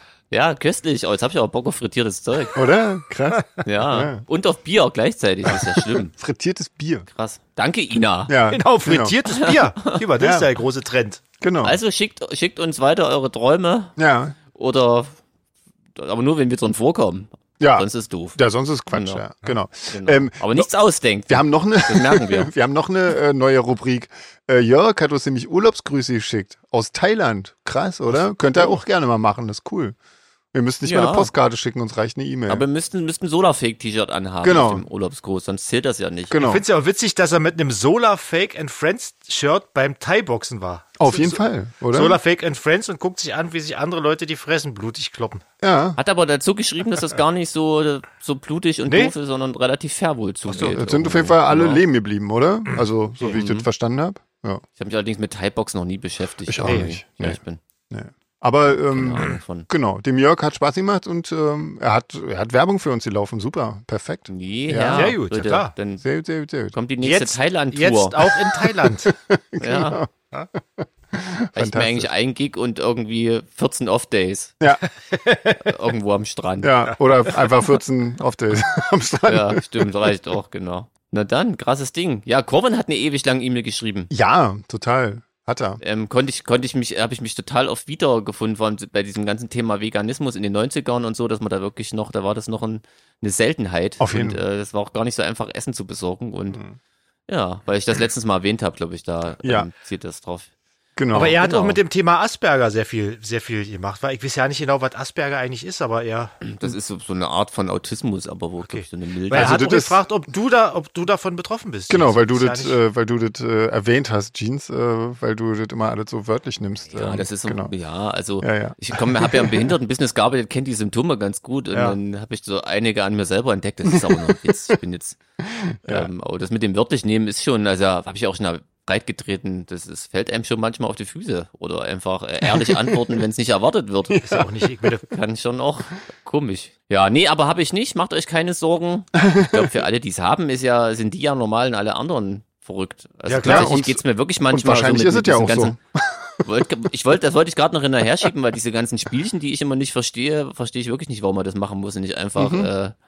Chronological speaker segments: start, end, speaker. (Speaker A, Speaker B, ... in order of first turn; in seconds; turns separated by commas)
Speaker A: 0.3-2.6, Speaker B: 2.5-4.2, Speaker A: 3.6-6.1, Speaker B: 5.5-7.1, Speaker A: 7.1-8.4, Speaker B: 8.3-9.2, Speaker C: 8.5-11.2, Speaker A: 9.3-10.0, Speaker B: 10.2-10.5, Speaker B: 11.4-11.8, Speaker A: 11.6-13.9, Speaker B: 14.0-14.4, Speaker A: 14.5-15.2, Speaker A: 16.0-18.4, Speaker B: 17.6-20.7, Speaker A: 18.9-19.2, Speaker A: 19.9-22.5, Speaker B: 21.3-30.0, Speaker B: 30.5-32.6, Speaker A: 30.8-31.3, Speaker A: 32.5-36.4, Speaker B: 34.4-34.9, Speaker B: 36.3-36.6, Speaker C: 36.4-45.4, Speaker B: 41.0-42.2, Speaker B: 45.6-46.0, Speaker A: 46.0-51.8, Speaker C: 48.9-49.1, Speaker B: 50.5-54.6, Speaker A: 53.2-53.7, Speaker A: 54.8-57.6, Speaker B: 56.5-57.4, Speaker C: 56.6-57.0, Speaker B: 57.9-65.2, Speaker A: 58.9-59.7, Speaker A: 64.3-66.0, Speaker C: 64.9-65.7, Speaker B: 66.0-66.8, Speaker A: 66.7-68.4, Speaker C: 67.0-69.1, Speaker B: 68.8-72.1, Speaker A: 69.6-70.0, Speaker A: 71.5-74.5, Speaker C: 75.1-75.7, Speaker A: 75.5-76.9, Speaker B: 76.6-80.1, Speaker A: 79.3-84.1, Speaker B: 84.1-85.8, Speaker A: 85.8-96.6, Speaker B: 94.0-94.4, Speaker B: 96.5-96.8, Speaker A: 97.3-100.5, Speaker B: 99.4-99.7, Speaker B: 101.0-101.4, Speaker C: 101.1-106.4, Speaker A: 101.3-101.8, Speaker A: 106.4-109.6, Speaker C: 108.6-112.8, Speaker B: 109.3-110.0, Speaker B: 111.9-117.7, Speaker A: 116.9-125.2, Speaker B: 118.4-119.7, Speaker B: 123.8-124.7, Speaker B: 125.4-126.1, Speaker A: 125.9-134.2, Speaker B: 132.5-133.0, Speaker B: 134.1-134.5, Speaker C: 134.2-135.1, Speaker A: 135.1-145.8, Speaker B: 139.2-139.7, Speaker C: 143.3-143.7, Speaker B: 143.4-146.5, Speaker A: 146.4-152.9, Speaker B: 152.4-152.7